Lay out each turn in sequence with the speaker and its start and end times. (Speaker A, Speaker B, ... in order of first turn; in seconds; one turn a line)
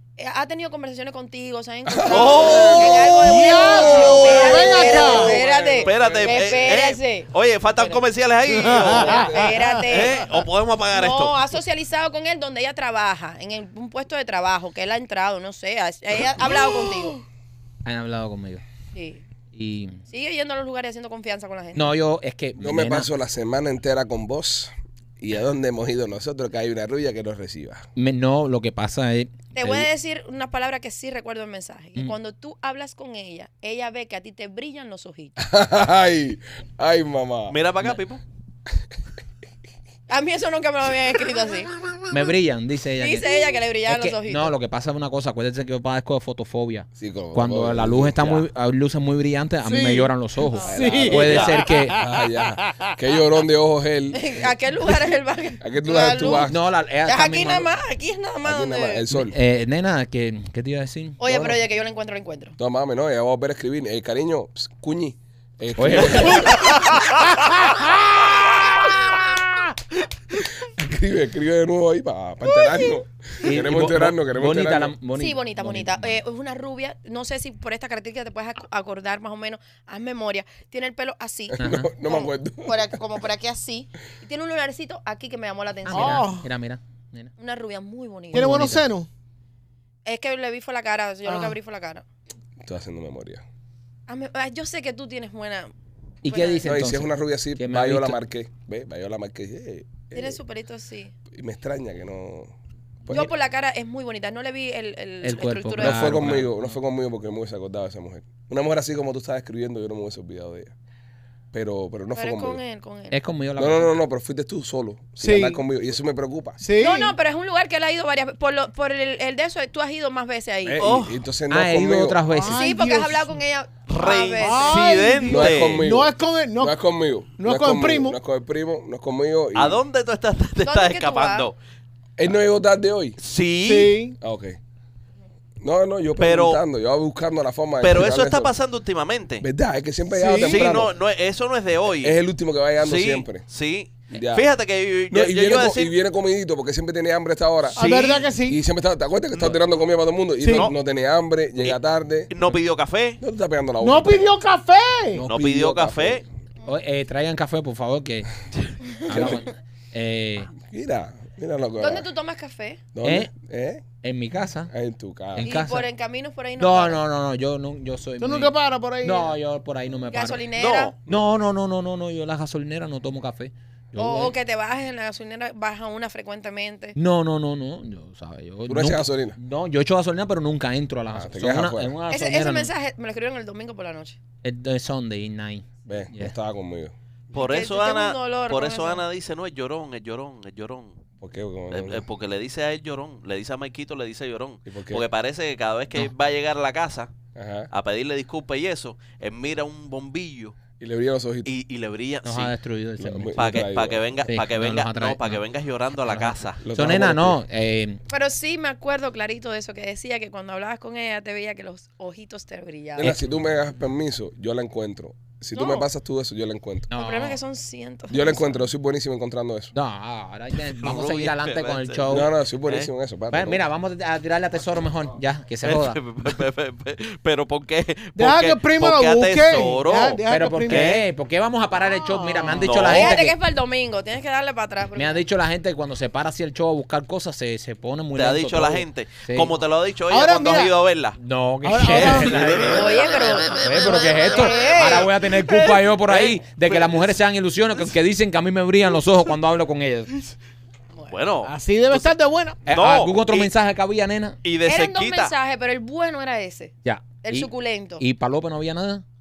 Speaker A: 0.2-8.1
Speaker B: 1.9-6.9
Speaker C: 2.1-3.2
Speaker D: 3.1-5.3
Speaker C: 5.2-11.4
Speaker D: 8.5-9.7
Speaker B: 8.9-9.6
Speaker A: 8.9-17.2
Speaker E: 17.9-18.6
Speaker A: 18.9-19.2
Speaker E: 19.5-20.0
Speaker A: 20.1-21.9
Speaker E: 21.7-23.1
Speaker B: 22.6-27.9
Speaker E: 27.9-29.9
Speaker A: 29.6-35.4
Speaker B: 35.4-37.6
Speaker C: 37.5-38.2
Speaker A: 40.1-41.7
Speaker E: 42.1-43.3
Speaker A: 43.0-44.5
Speaker E: 43.9-52.0
Speaker B: 47.0-48.2
Speaker D: 49.6-50.1
Speaker A: 50.5-50.9
Speaker B: 50.6-54.5
Speaker D: 50.6-52.0
Speaker C: 51.2-51.6
Speaker D: 52.6-52.9
Speaker A: 54.1-59.0
Speaker B: 55.6-56.6
Speaker E: 56.4-57.7
Speaker B: 58.4-59.4
Speaker E: 59.1-61.2
Speaker A: 61.2-62.6
Speaker B: 61.3-61.6
Speaker B: 62.6-66.9
Speaker E: 65.8-66.6
Speaker B: 70.6-74.9
Speaker E: 73.4-76.2
Speaker A: 75.2-86.3
Speaker B: 81.5-83.0
Speaker E: 81.6-81.9
Speaker E: 85.9-87.3
Speaker D: 85.9-86.5
Speaker A: 87.4-88.8
Speaker D: 88.3-89.1
Speaker E: 88.3-88.9
Speaker A: 90.1-92.0
Speaker D: 91.2-91.6
Speaker B: 92.6-93.4
Speaker A: 94.1-95.7
Speaker E: 96.2-98.2
Speaker A: 96.2-96.7
Speaker B: 96.6-100.4
Speaker A: 100.1-101.1
Speaker B: 101.3-102.5
Speaker B: 103.0-103.3
Speaker A: 103.1-106.3
Speaker E: 105.2-106.7
Speaker B: 105.8-110.7
Speaker B: 111.5-112.6
Speaker A: 112.1-113.2
Speaker E: 113.1-114.0
Speaker B: 113.6-116.6
Speaker D: 115.2-115.6
Speaker D: 116.6-117.1
Speaker A: 116.8-120.8
Speaker B: 120.6-122.2
Speaker C: 120.8-121.2
Speaker E: 121.5-122.7
Speaker D: 122.3-123.3
Speaker A: 122.5-125.0
Speaker C: 123.9-125.9
Speaker D: 124.4-126.8
Speaker B: 125.2-129.8
Speaker D: 127.4-128.2
Speaker C: 129.6-131.6
Speaker A: 130.6-131.5
Speaker B: 132.2-133.2
Speaker C: 133.2-134.0
Speaker D: 133.6-134.2
Speaker B: 134.2-134.6
Speaker B: 135.6-138.5
Speaker C: 136.2-136.6
Speaker C: 137.8-139.4
Speaker B: 139.4-140.9
Speaker D: 140.1-140.8
Speaker C: 140.4-142.2
Speaker B: 142.0-143.4
Speaker C: 142.8-145.9
Speaker B: 144.1-144.5
Speaker B: 145.1-147.8
Speaker D: 147.7-148.6
Speaker C: 147.8-148.2
Speaker B: 148.4-152.3
Speaker D: 150.4-150.7
Speaker C: 150.5-150.8
Speaker C: 152.3-153.2
Speaker B: 153.2-154.3
Speaker D: 153.8-155.3
Speaker C: 155.2-156.2
Speaker B: 155.2-156.2
Speaker E: 156.7-158.3
Speaker E: 159.0-160.5
Speaker B: 159.1-159.4
Speaker B: 160.5-162.1
Speaker A: 161.8-162.8
Speaker B: 162.9-163.8
Speaker E: 163.0-163.3
Speaker E: 164.0-164.7
Speaker B: 164.7-165.6
Speaker E: 165.3-165.9
Speaker A: 165.4-167.0
Speaker E: 166.6-170.4
Speaker D: 168.2-169.3
Speaker A: 170.1-170.9
Speaker C: 170.6-171.0
Speaker E: 171.1-174.3
Speaker A: 174.0-176.9
Speaker E: 176.9-182.7
Speaker B: 178.7-179.4
Speaker B: 181.1-181.9
Speaker A: 182.1-184.2
Speaker E: 184.4-186.3
Speaker B: 185.9-186.9
Speaker C: 187.3-191.0
Speaker A: 187.4-189.0
Speaker B: 191.2-192.1
Speaker C: 191.7-197.1
Speaker B: 194.7-195.1
Speaker B: 197.3-197.7
Speaker C: 197.7-200.6
Speaker B: 200.8-201.5
Speaker C: 201.4-202.5
Speaker E: 202.2-203.6
Speaker B: 203.0-204.1
Speaker C: 203.4-206.6
Speaker E: 204.2-205.4
Speaker E: 206.0-208.0
Speaker B: 206.6-207.4
Speaker A: 208.1-213.1
Speaker B: 213.0-216.9
Speaker A: 215.5-215.9
Speaker E: 216.9-217.4
Speaker A: 216.9-218.6
Speaker B: 218.1-219.7
Speaker E: 219.7-222.3
Speaker C: 220.8-222.9
Speaker B: 222.1-223.6
Speaker E: 223.3-226.0
Speaker C: 225.6-231.0
Speaker D: 228.2-231.0
Speaker E: 230.3-233.4
Speaker D: 231.9-232.8
Speaker C: 232.5-233.2
Speaker A: 232.8-235.2
Speaker E: 234.9-239.5
Speaker C: 238.1-241.2
Speaker D: 240.1-240.8
Speaker E: 241.2-242.9
Speaker D: 241.6-242.4
Speaker C: 241.8-243.4
Speaker A: 242.7-245.8
Speaker E: 243.5-250.1
Speaker C: 246.1-247.1
Speaker C: 251.1-252.1
Speaker D: 251.4-252.6
Speaker C: 252.7-253.5
Speaker E: 252.7-254.4
Speaker C: 254.4-255.3
Speaker A: 254.6-258.0
Speaker E: 256.9-259.0